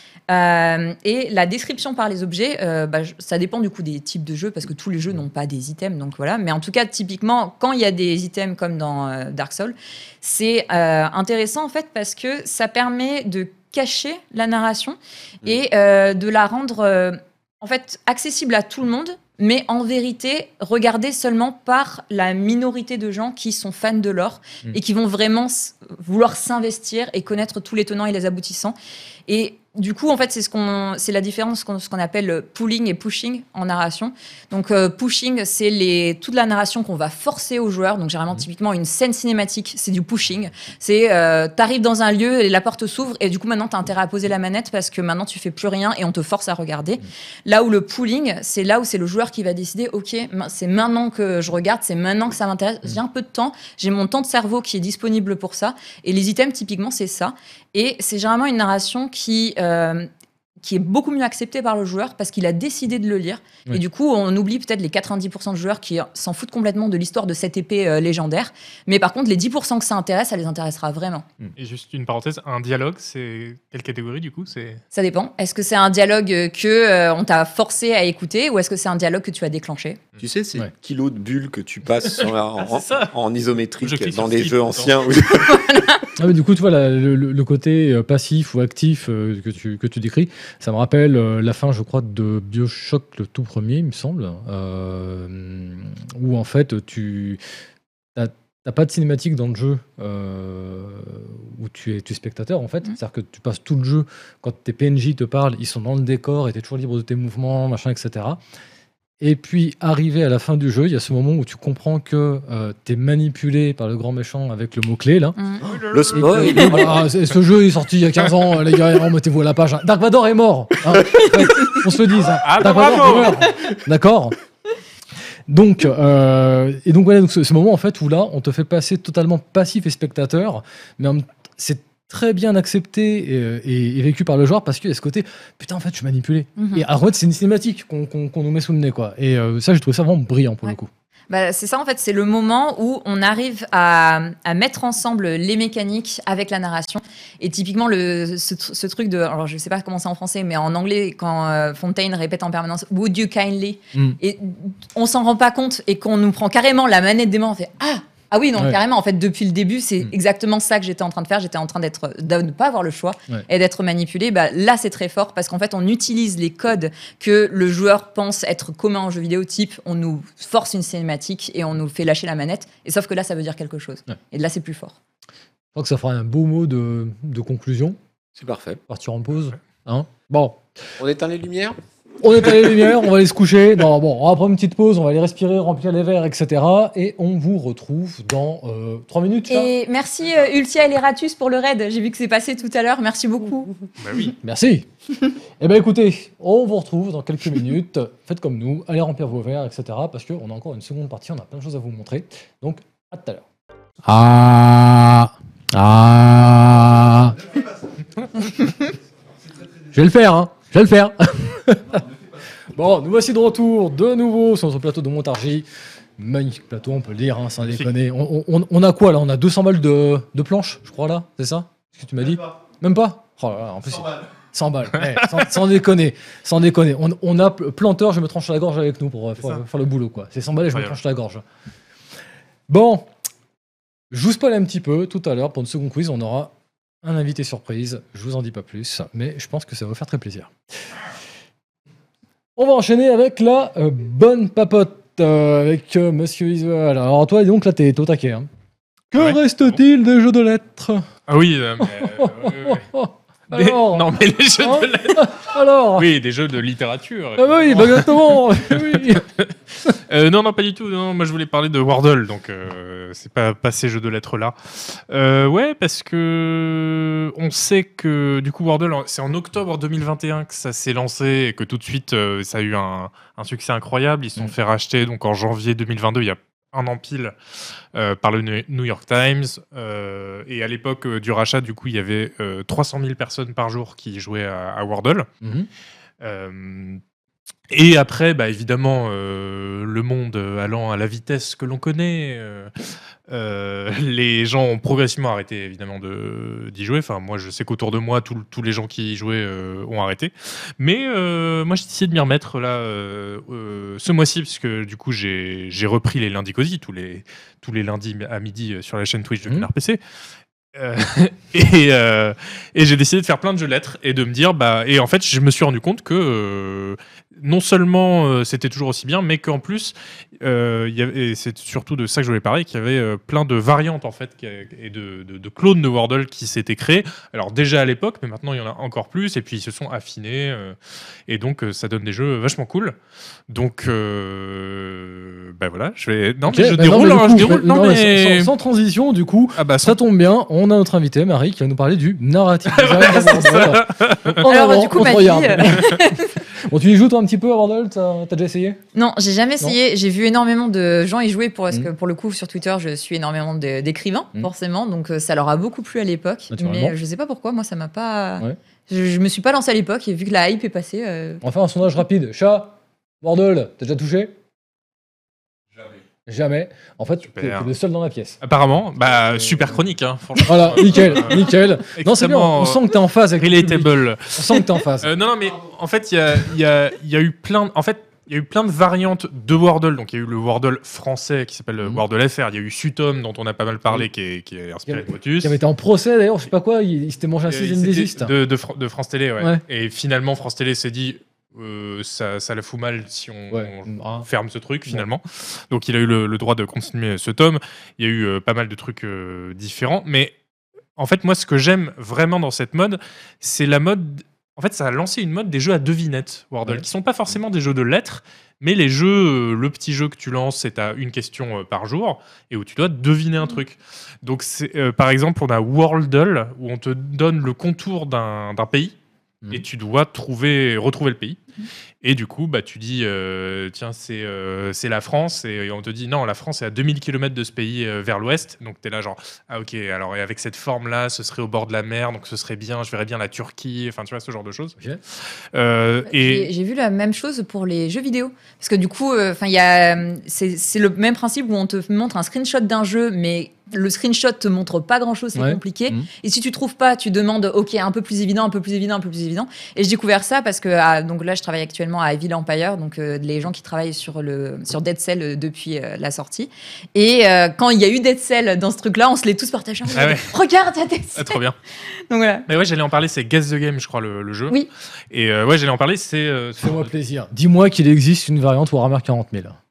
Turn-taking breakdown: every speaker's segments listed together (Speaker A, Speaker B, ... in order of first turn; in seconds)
Speaker A: 0.3-28.8, 29.3-60.1, 60.6-71.2, 74.9-80.0, 85.3-86.0, 136.6-136.8, 141.3-175.0, 189.5-193.7, 344.4-346.4, 348.9-361.4, 436.1-461.4, 462.1-462.4
Speaker B: 71.6-74.8, 82.2-83.1, 83.8-85.0, 115.6-116.6, 122.4-123.5, 194.0-194.3, 225.0-225.4, 249.2-249.8, 251.3-252.8, 253.5-255.3, 255.9-277.3, 277.9-285.3, 286.2-287.0, 287.7-292.7, 293.3-310.0, 310.7-330.8, 331.3-332.9, 333.5-338.5, 339.6-340.0, 342.7-344.4, 367.4-367.7, 368.4-372.8, 373.4-385.5, 387.5-400.3, 401.0-418.9, 419.5-421.4, 422.0-436.5, 459.9-460.3, 461.1-461.6, 462.5-464.6, 465.1-466.9
Speaker C: 80.2-85.8, 115.9-117.0, 178.3-178.8, 181.0-181.8
Speaker D: 86.2-97.4, 98.1-108.4, 109.2-115.4, 116.2-124.3, 125.5-140.9, 153.9-154.2, 175.7-178.0, 178.9-180.9, 182.2-189.7, 194.4-194.9, 195.6-203.4, 204.0-207.5, 209.9-212.0, 212.7-215.7, 216.2-231.4, 232.7-233.1, 234.1-241.0, 242.6-248.5, 249.1-251.1, 251.8-256.1, 257.4-259.2, 285.4-285.7, 336.5-348.8, 356.5-356.9, 361.4-364.4, 366.3-368.4, 369.3-369.7, 370.4-375.1, 384.9-388.3, 393.5-394.3, 445.3-446.1, 466.6-469.6